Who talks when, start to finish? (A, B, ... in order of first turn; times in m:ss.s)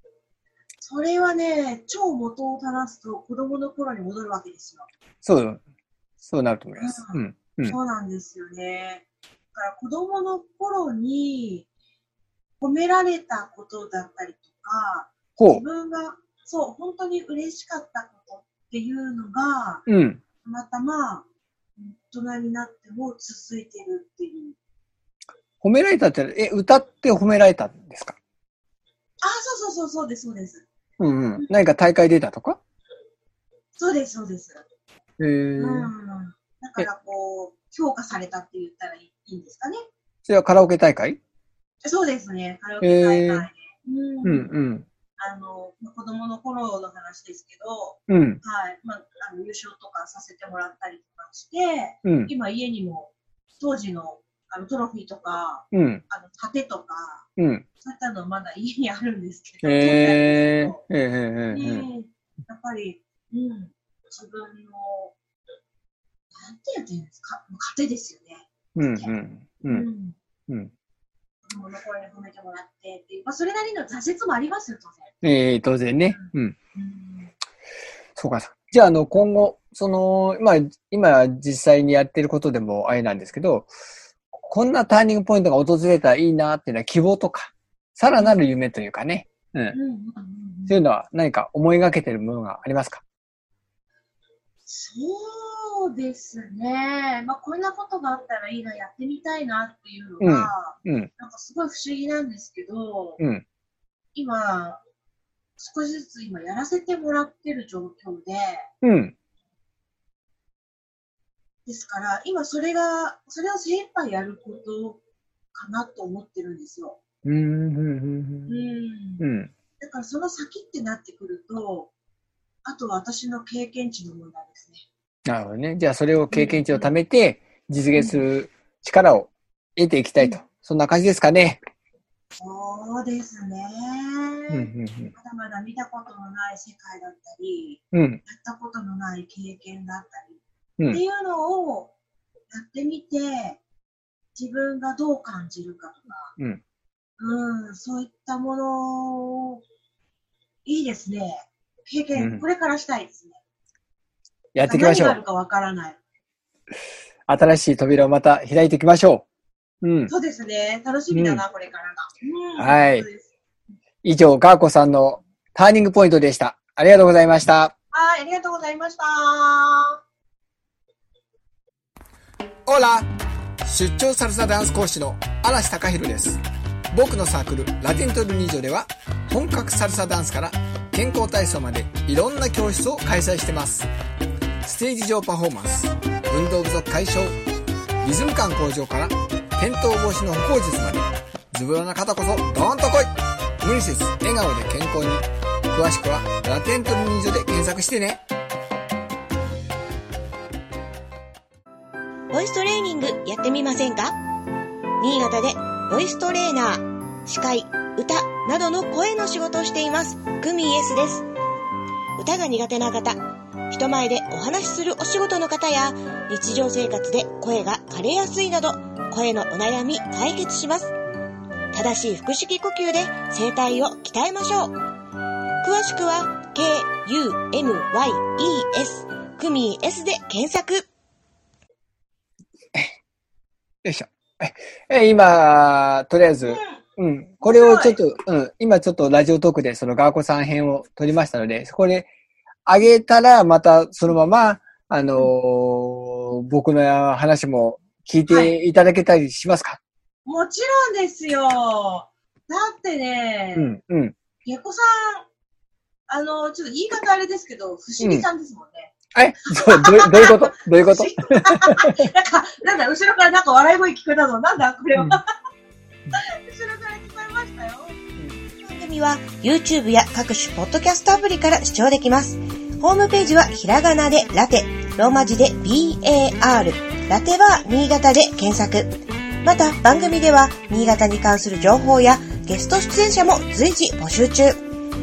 0:00.8-0:04.9 A
0:05.2-0:05.6 B
0:06.2-0:07.8 B
0:06.8-0:11.7 A
0:12.6-0:19.8 A
0:15.4-0:15.6 B
0:19.8-0:20.2 B
0:20.4-0:21.2 A
0:21.8-0:24.6 A
0:25.6-0:28.2 B
0:29.2-0:30.6 A
0:31.0-0:32.6 B
0:33.8-0:34.6 A
0:35.2-0:35.9 B
0:35.6-0:39.8 A
0:40.2-0:41.2 B
0:41.8-0:44.5 A
0:42.8-0:43.5 B
0:44.2-0:44.8 B
0:45.2-0:57.2 A
0:48.1-0:48.4 B
0:52.0-0:52.3 B
0:55.7-0:56.0 B
0:57.4-0:57.6 B
0:57.8-1:00.8 A
0:59.6-1:01.9 B
1:01.5-1:05.1 A
1:06.3-1:09.1 A
1:08.8-1:09.9 B
1:09.7-1:10.2 A
1:11.4-1:15.1 A
1:15.2-1:16.5 B
1:16.1-1:17.3 A
1:18.2-1:23.7 B
1:24.3-1:29.8 B
1:29.7-1:30.8 A
1:30.7-1:33.0 B
1:34.6-1:43.2 A
1:40.2-1:41.1 B
1:44.1-1:44.8 A
1:45.6-1:48.7 A
1:48.8-1:49.1 B
1:51.6-1:55.0 A
1:55.5-1:57.0 A
1:57.2-1:58.6 B
1:58.5-1:59.2 A
1:59.2-1:59.5 B
1:59.8-2:01.9 A
2:02.6-2:04.8 A
2:05.2-2:11.6 B
2:06.3-2:07.0 A
2:07.9-2:08.2 A
2:12.4-2:21.9 A
2:14.5-2:15.1 B
2:17.9-2:18.2 B
2:22.5-2:23.6 A
2:24.3-2:26.3 A
2:27.2-2:29.6 A
2:30.6-2:33.4 A
2:32.2-2:32.4 B
2:34.5-2:35.2 B
2:34.6-2:36.0 A
2:37.3-2:39.2 B
2:39.8-2:40.1 B
2:40.1-2:43.3 A
2:41.1-2:41.4 B
2:42.6-2:43.1 B
2:44.0-2:47.7 B
2:47.9-2:50.0 A
2:52.6-2:53.1 B
2:53.6-2:56.4 B
2:56.9-3:03.9 B
3:04.6-3:07.4 B
3:08.0-3:18.2 B
3:22.3-3:24.2 C
3:25.0-3:31.3 C
3:32.2-3:40.9 C
3:41.7-3:44.7 C
3:45.6-3:50.9 C
3:53.8-4:02.1 B
3:56.4-3:56.8 A
3:57.4-3:58.0 A
4:02.6-4:09.8 B
4:08.3-4:08.5 A
4:10.2-4:13.7 A
4:13.5-4:14.1 B
4:14.4-4:15.2 A
4:16.1-4:18.9 A
4:18.0-4:18.2 B
4:19.1-4:22.1 B
4:19.4-4:25.3 A
4:26.1-4:28.0 A
4:28.6-4:44.6 C